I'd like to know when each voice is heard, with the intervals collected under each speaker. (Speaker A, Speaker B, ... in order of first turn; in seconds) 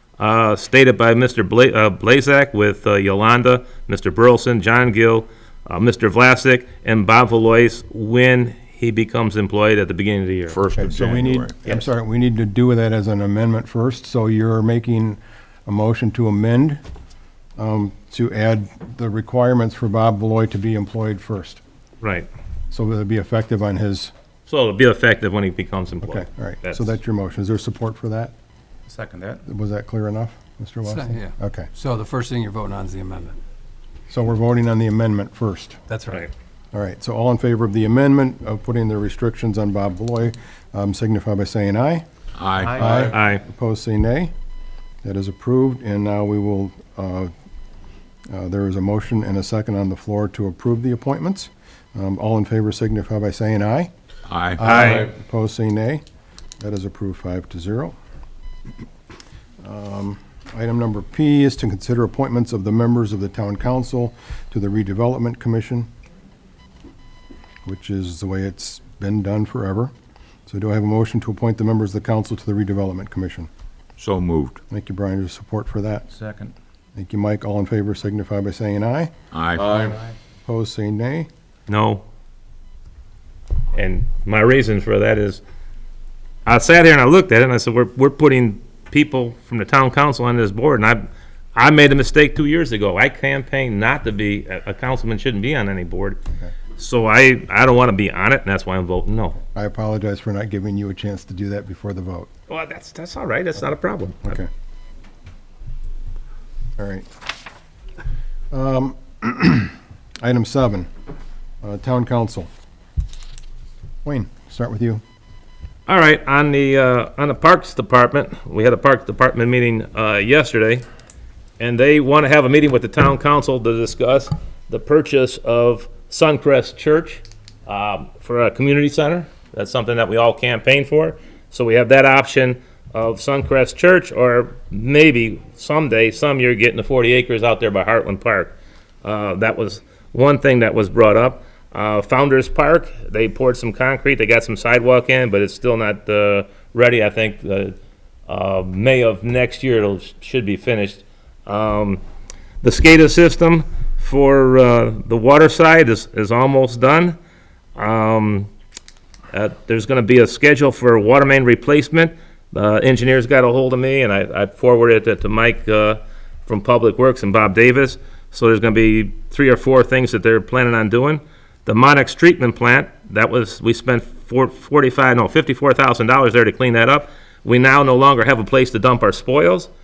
Speaker A: 0.2-10.6, 22.0-22.3, 24.5-27.0, 43.0-43.4, 54.6-55.1, 81.7-82.0, 83.7-85.4, 86.5-96.2, 96.8-99.4, 102.5-104.4, 115.9-120.8, 121.6-147.8, 148.3-152.0, 152.6-157.2, 157.8-158.5, 159.3-179.7
Speaker B: 10.5-11.6, 42.4-43.0, 54.3-54.9, 74.0-74.6, 79.3-79.9
Speaker C: 10.8-16.8, 17.6-21.6, 22.7-24.1, 26.0-28.3, 29.5-31.7, 34.1-35.8, 36.7-42.0, 42.7-44.3, 45.0-47.3, 48.3-53.9, 54.5-56.0, 56.6-58.0, 59.6-65.9, 67.7-69.9, 70.5-73.5, 74.7-76.1, 77.0-79.1, 80.5-81.3, 99.5-102.3, 104.2-104.5, 106.8-107.1, 108.5-110.9, 111.6-112.5, 114.0-115.0
Speaker D: 28.9-29.4, 42.6-43.1, 76.1-76.5, 79.7-80.1
Speaker E: 30.8-33.4, 35.9-36.3